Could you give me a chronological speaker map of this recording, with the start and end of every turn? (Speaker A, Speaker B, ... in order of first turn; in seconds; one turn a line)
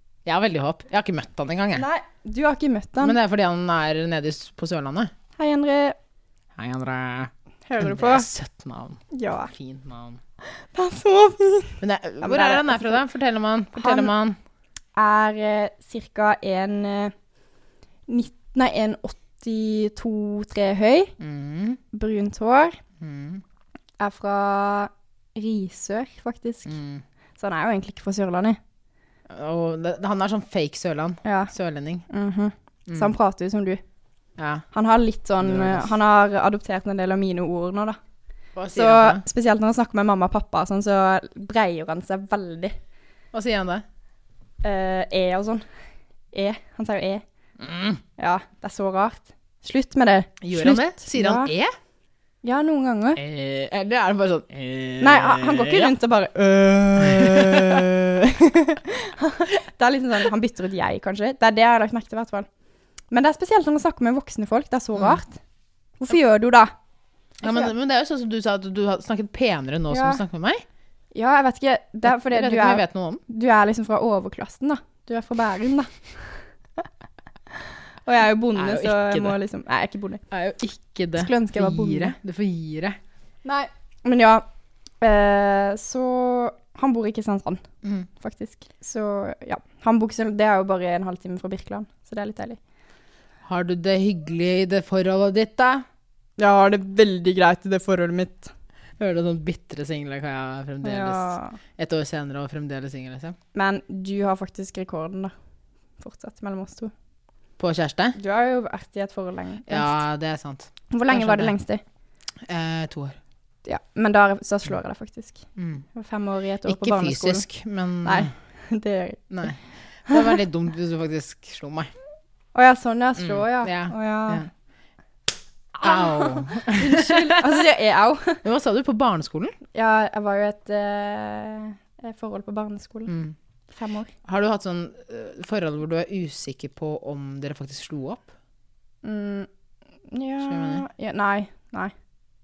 Speaker A: 0.2-1.9
Speaker B: 1.7-3.2
Speaker A: 3.0-5.1
Speaker B: 5.4-6.0
Speaker A: 6.6-10.2
Speaker B: 7.7-8.3
Speaker B: 9.1-9.5
Speaker B: 10.4-13.0
Speaker A: 11.8-14.4
Speaker B: 13.8-14.1
Speaker B: 14.9-17.1
Speaker B: 18.1-21.1
Speaker A: 21.2-21.8
Speaker B: 21.9-22.8
Speaker A: 23.0-23.4
Speaker B: 24.0-26.7
Speaker A: 26.6-27.0
Speaker B: 27.4-28.6
Speaker A: 29.3-32.0
Speaker B: 31.2-31.5
Speaker B: 32.1-33.8
Speaker A: 32.9-33.1
Speaker A: 34.4-34.6
Speaker B: 34.7-38.0
Speaker A: 35.4-35.9
Speaker A: 38.5-39.2
Speaker B: 38.7-42.8
Speaker A: 43.3-43.8
Speaker B: 44.6-45.6
Speaker B: 46.3-47.2
Speaker A: 47.6-48.0
Speaker B: 48.2-51.5
Speaker A: 50.4-51.7
Speaker B: 52.4-53.2
Speaker A: 53.1-55.9
Speaker B: 55.0-62.5
Speaker A: 57.1-57.9
Speaker B: 63.1-65.4
Speaker B: 66.0-66.7
Speaker A: 67.4-70.6
Speaker B: 67.4-67.7
Speaker B: 69.9-70.2
Speaker B: 71.1-76.9
Speaker A: 72.0-73.2
Speaker B: 77.5-80.2
Speaker A: 78.5-79.4
Speaker A: 80.3-83.0
Speaker B: 81.2-82.1
Speaker B: 83.4-84.4
Speaker B: 85.0-87.6
Speaker A: 87.8-88.1
Speaker B: 88.2-92.6
Speaker A: 93.5-95.8
Speaker B: 96.4-98.5
Speaker A: 99.0-103.4
Speaker B: 100.8-101.6
Speaker B: 103.5-105.3
Speaker B: 106.0-106.9
Speaker A: 107.6-108.2
Speaker B: 108.2-110.0
Speaker A: 109.7-111.5
Speaker B: 110.9-111.8
Speaker A: 112.5-113.2
Speaker B: 113.6-117.4
Speaker A: 115.6-115.8
Speaker A: 116.7-118.3
Speaker B: 118.0-119.5
Speaker A: 119.3-121.9
Speaker B: 120.1-120.4
Speaker B: 122.5-124.5
Speaker A: 123.2-124.5
Speaker A: 125.7-127.6
Speaker B: 125.8-128.4
Speaker A: 128.4-129.6
Speaker B: 129.7-133.1
Speaker A: 133.1-133.3
Speaker B: 133.7-134.1
Speaker A: 134.2-138.3
Speaker B: 139.0-139.5
Speaker B: 140.1-141.9
Speaker A: 140.4-140.8